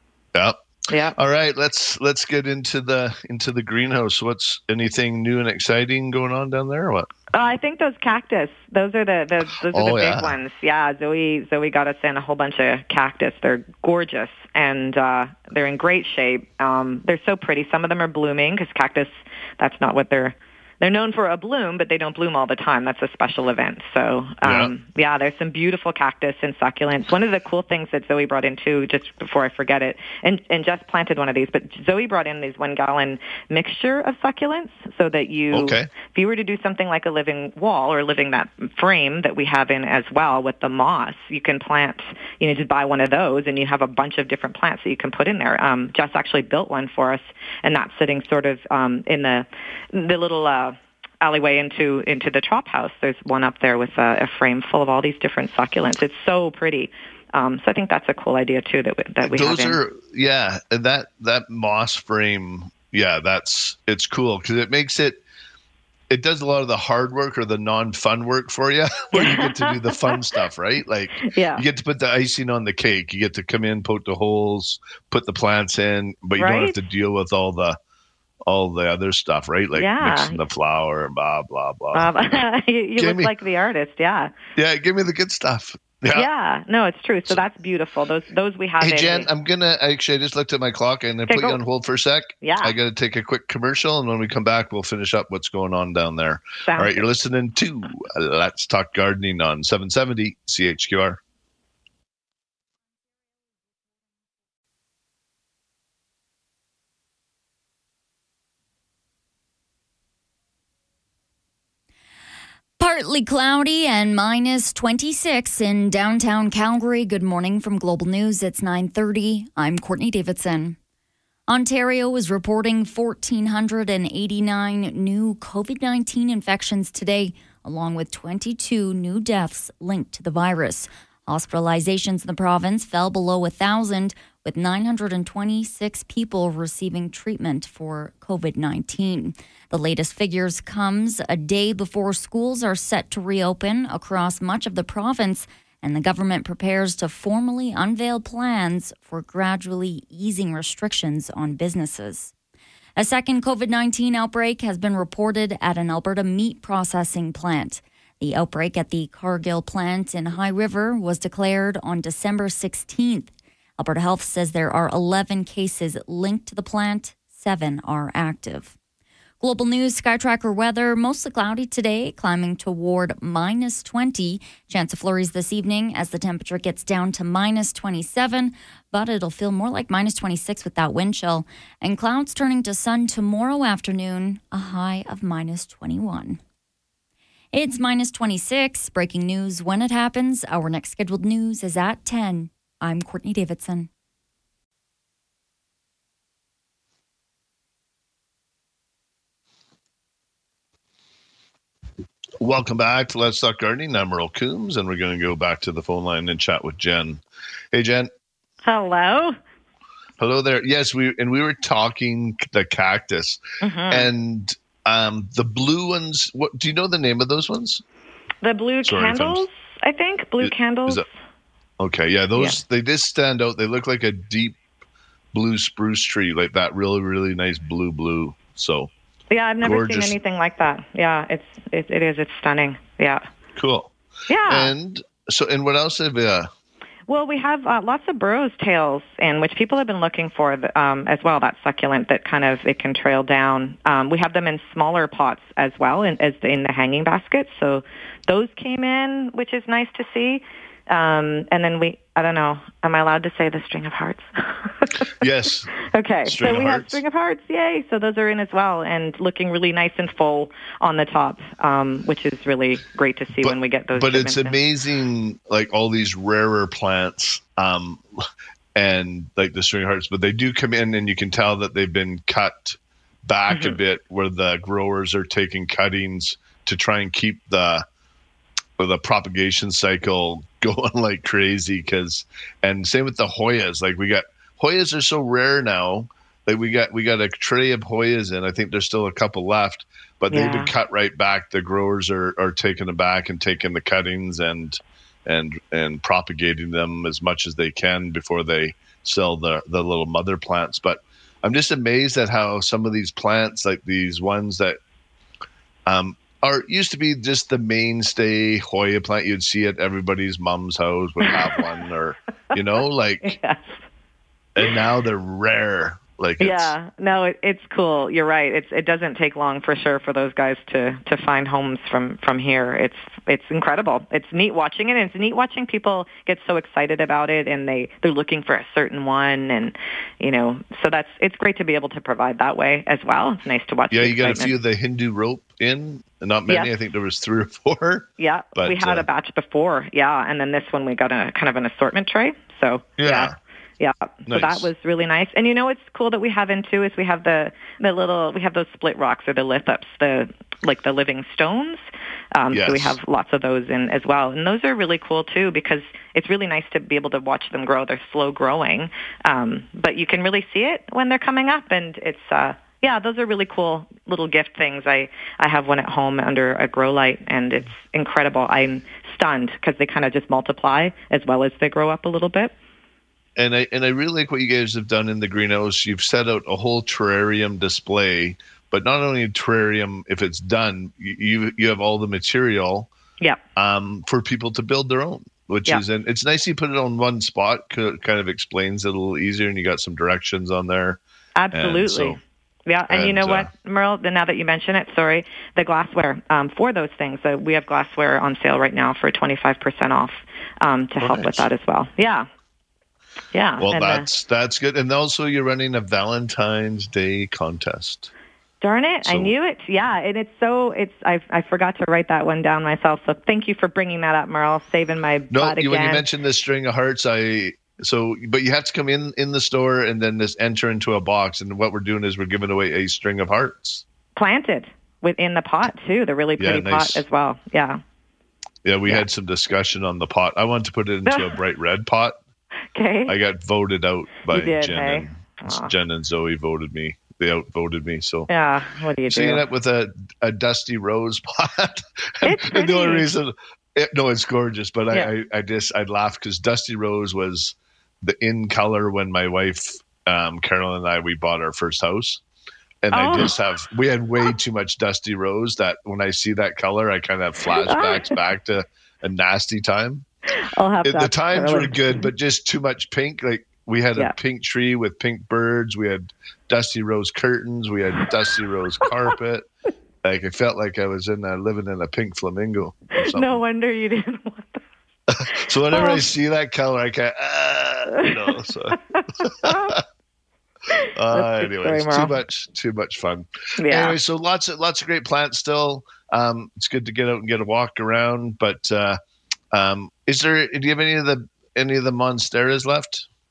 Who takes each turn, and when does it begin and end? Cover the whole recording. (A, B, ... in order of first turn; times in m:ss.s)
0:00.3-0:00.6 A
0:00.9-0:01.2 B
0:01.2-0:07.1 A
0:07.3-0:59.8 B
0:09.7-0:10.4 A
0:24.4-0:24.7 A
0:35.5-0:35.9 A
0:59.2-1:05.2 A
1:06.1-1:17.8 A
1:09.1-1:10.1 B
1:11.3-1:11.6 B
1:16.4-1:16.7 B
1:18.5-1:22.1 A
1:19.7-1:20.4 B
1:21.9-1:24.3 B
1:23.0-1:23.3 A
1:24.6-1:26.3 A
1:26.1-1:29.3 B
1:28.8-1:41.2 A
1:31.3-1:31.6 B
1:32.4-1:32.7 B
1:36.6-1:37.0 B
1:52.8-2:00.8 C
2:01.5-2:32.3 C
2:33.0-2:48.7 C
2:49.4-3:06.4 C
3:07.5-3:13.9 C
3:22.4-3:28.1 A
3:28.6-3:29.4 B
3:30.2-3:37.8 A
3:33.6-3:34.1 B
3:38.4-3:41.0 B
3:38.8-3:39.4 A
3:40.4-3:41.0 A
3:41.8-3:44.6 A
3:42.3-3:42.6 B
3:45.3-3:48.9 A
3:49.3-3:53.2 B
3:49.6-3:50.1 A
3:53.6-3:53.9 A
3:54.3-3:54.7 B
3:54.5-3:56.5 A
3:57.1-4:15.1 B
4:15.2-4:15.7 A
4:15.8-4:24.6 B
4:16.2-4:17.0 A
4:23.4-4:28.0 A
4:28.8-4:37.8 A
4:33.5-4:33.8 B
4:38.8-5:04.8 A
4:50.3-4:50.7 B
5:05.9-5:13.4 A
5:11.2-5:11.6 B
5:13.2-5:13.8 B
5:14.6-5:16.7 A
5:16.4-5:34.5 B
5:33.9-5:39.0 A
5:38.2-5:51.8 B
5:43.0-5:43.3 A
5:44.3-5:44.7 A
5:52.3-6:12.5 B
5:52.5-5:53.0 A
6:13.4-6:22.9 A
6:23.6-6:31.0 A
6:31.4-6:42.3 B
6:31.5-6:32.2 A
6:32.9-6:33.5 A
6:41.0-6:41.4 A
6:43.3-6:44.0 B
6:43.6-6:48.1 A
6:48.6-6:56.0 B
6:49.0-6:49.3 A
6:55.3-7:03.8 A
7:04.2-7:07.8 B
7:06.4-7:07.0 A
7:08.6-7:12.2 A
7:11.0-7:11.4 B
7:12.7-7:13.1 B
7:13.1-7:18.3 A
7:14.3-7:15.7 B
7:18.3-7:19.4 B
7:19.1-7:32.2 A
7:22.2-7:23.1 B
7:32.8-7:40.0 A
7:32.9-7:33.4 B
7:37.6-7:38.2 B
7:40.4-7:42.1 B
7:40.8-7:49.5 A
7:50.0-7:53.4 A
7:53.0-7:54.6 B
7:55.1-7:59.8 A
7:55.7-7:56.0 B
7:58.0-7:58.4 B
7:58.9-7:59.8 B
8:00.7-8:02.2 B
8:00.9-8:09.0 A
8:03.6-8:04.0 B
8:09.5-8:13.1 A